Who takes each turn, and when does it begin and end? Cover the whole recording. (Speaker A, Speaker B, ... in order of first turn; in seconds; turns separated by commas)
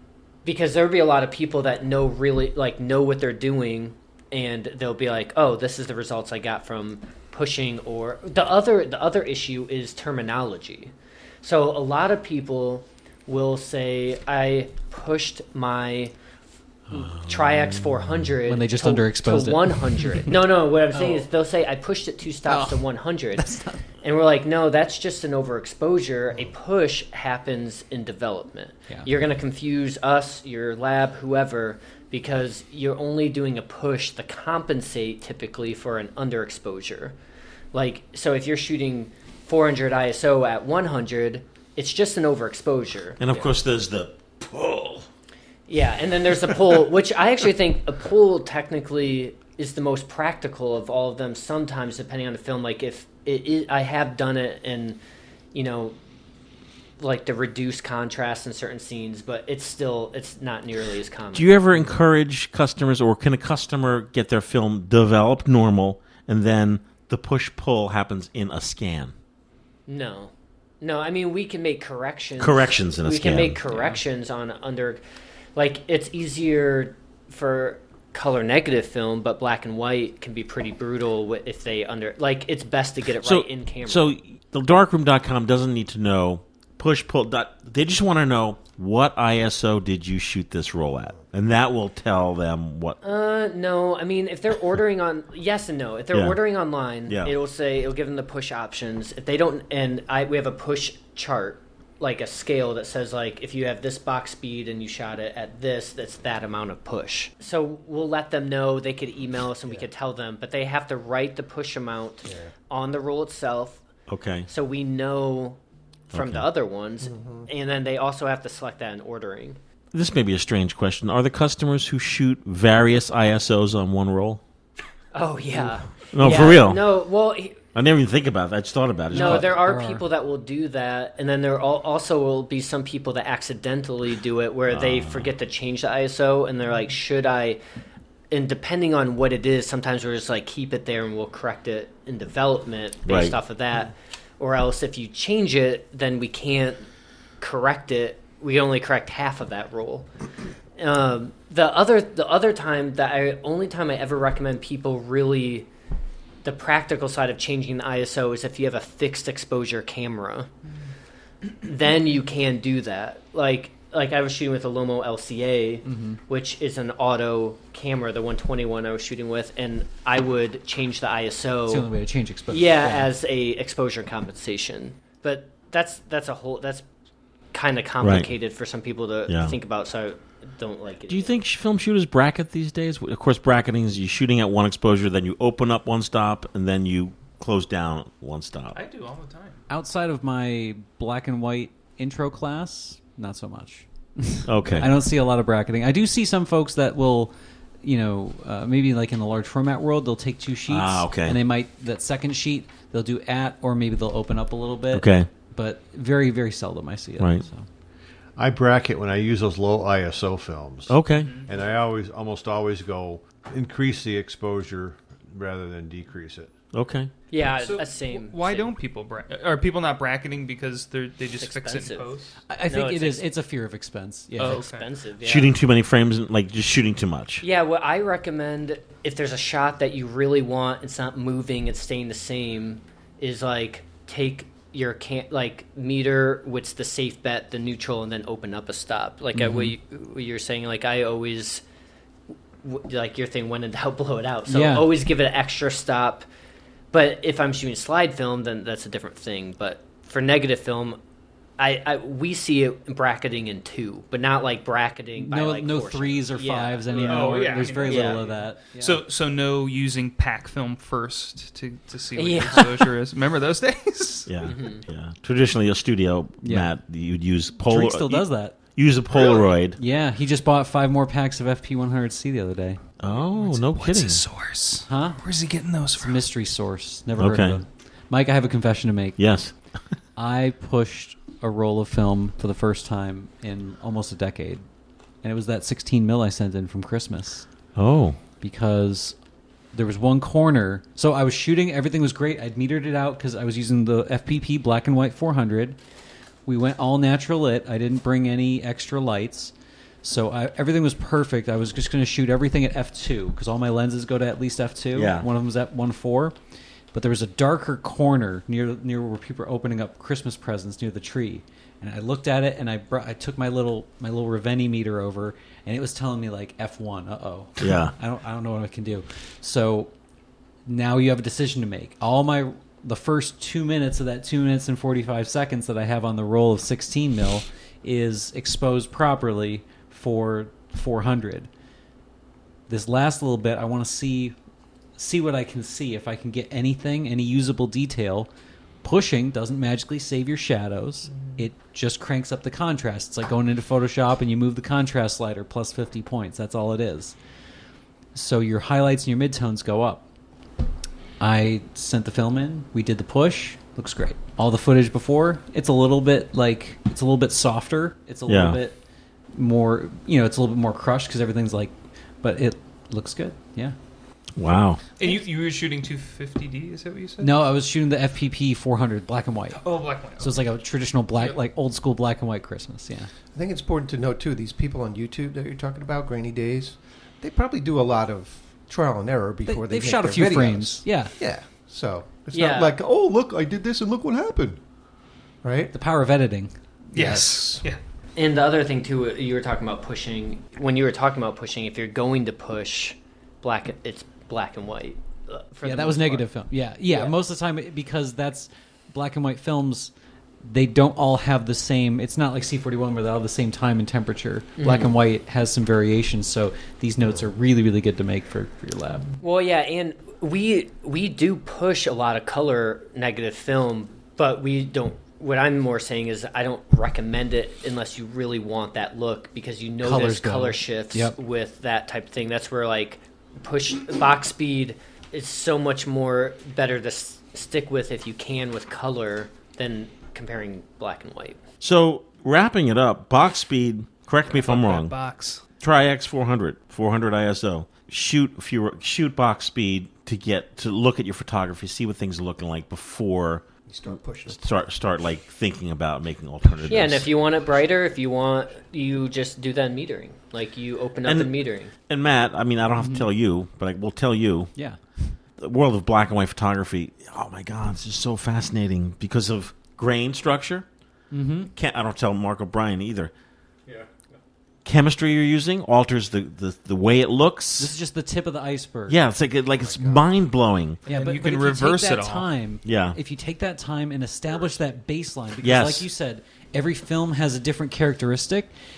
Speaker A: 0.4-10.9, Speaker A: 11.4-16.1, Speaker B: 16.9-18.1, Speaker A: 16.9-23.5, Speaker C: 18.4-20.3, Speaker C: 20.9-21.2, Speaker C: 22.4-23.8, Speaker A: 24.0-37.1, Speaker A: 37.7-43.5, Speaker B: 43.2-45.1, Speaker A: 45.7-55.0, Speaker A: 55.5-56.0, Speaker A: 57.0-61.8, Speaker B: 61.3-69.1, Speaker A: 69.9-75.0, Speaker B: 72.4-73.6, Speaker C: 73.7-74.0, Speaker A: 75.5-84.1, Speaker B: 83.2-93.0, Speaker A: 93.0-113.8, Speaker B: 96.1-96.4, Speaker B: 97.1-97.3, Speaker B: 114.1-114.5, Speaker A: 114.5-115.6, Speaker A: 116.1-119.6, Speaker B: 116.1-116.5, Speaker D: 117.0-117.5, Speaker B: 119.9-124.4, Speaker A: 125.1-127.6, Speaker B: 126.1-126.9, Speaker B: 127.7-129.6, Speaker C: 129.1-130.0, Speaker A: 129.1-137.6, Speaker B: 134.7-135.3, Speaker A: 138.3-146.8, Speaker B: 143.1-143.4, Speaker A: 147.4-150.1, Speaker A: 150.8-155.7, Speaker A: 156.4-160.5, Speaker A: 161.6-171.9, Speaker C: 165.8-166.2, Speaker C: 171.7-173.1, Speaker A: 172.5-176.8, Speaker A: 177.5-181.3, Speaker B: 178.0-178.3, Speaker B: 179.3-179.5, Speaker B: 181.1-188.8, Speaker E: 188.7-189.6, Speaker C: 189.7-207.7, Speaker B: 194.4-194.9, Speaker B: 200.7-201.4, Speaker B: 204.9-205.3, Speaker B: 207.2-207.4, Speaker F: 208.3-216.5, Speaker B: 210.9-211.3, Speaker E: 211.2-211.5, Speaker B: 216.7-217.1, Speaker A: 217.3-218.7, Speaker E: 217.4-222.4, Speaker A: 221.4-223.3, Speaker C: 222.5-224.6, Speaker E: 224.4-224.9, Speaker A: 224.4-225.5, Speaker B: 225.2-227.4, Speaker A: 227.4-241.6, Speaker C: 239.3-239.7, Speaker A: 242.6-246.2, Speaker C: 244.5-244.8, Speaker A: 246.9-251.0, Speaker A: 251.6-258.2, Speaker C: 255.2-259.0, Speaker E: 256.9-264.3, Speaker B: 257.9-258.2, Speaker A: 262.1-262.9, Speaker B: 264.3-269.8, Speaker A: 264.4-264.8, Speaker C: 266.4-266.7, Speaker C: 267.7-268.6, Speaker C: 269.8-272.8, Speaker B: 273.0-274.3, Speaker E: 273.1-276.2, Speaker C: 274.8-275.2, Speaker C: 276.0-279.6, Speaker B: 277.2-277.6, Speaker B: 279.2-279.7, Speaker C: 280.1-284.6, Speaker C: 285.2-287.5, Speaker B: 287.7-288.2, Speaker C: 288.4-289.2, Speaker C: 289.7-295.8, Speaker C: 296.4-306.4, Speaker B: 304.9-305.3, Speaker C: 306.9-319.9, Speaker B: 317.6-317.9, Speaker C: 320.6-331.5, Speaker C: 332.7-334.3, Speaker C: 335.0-338.3, Speaker C: 338.8-347.2, Speaker E: 341.1-341.4, Speaker C: 348.1-350.1, Speaker C: 351.2-358.8, Speaker B: 358.3-358.6, Speaker C: 359.3-363.8, Speaker B: 364.4-364.8, Speaker E: 365.0-367.3, Speaker C: 367.2-373.1, Speaker E: 369.5-370.4, Speaker E: 371.1-371.4, Speaker D: 373.3-384.6, Speaker C: 379.5-381.1, Speaker A: 382.3-382.8, Speaker D: 385.4-385.7, Speaker C: 385.7-386.9, Speaker E: 386.9-387.8, Speaker D: 386.9-387.6, Speaker A: 388.1-396.4, Speaker C: 395.6-399.9, Speaker A: 396.9-397.1, Speaker C: 400.4-409.1, Speaker A: 404.6-404.9, Speaker A: 409.2-431.4, Speaker C: 419.8-421.1, Speaker B: 431.6-434.9, Speaker E: 434.4-435.4, Speaker B: 435.6-443.4, Speaker D: 443.7-444.4, Speaker B: 444.3-447.1, Speaker A: 446.6-451.7, Speaker B: 451.0-454.5, Speaker C: 452.8-453.1, Speaker C: 454.6-455.1, Speaker B: 455.4-460.7, Speaker C: 461.1-461.5, Speaker B: 461.5-463.1, Speaker B: 464.6-467.7, Speaker C: 467.6-469.0, Speaker B: 468.9-470.8, Speaker E: 470.8-472.3, Speaker C: 470.9-478.5, Speaker B: 472.6-473.0, Speaker B: 475.4-475.9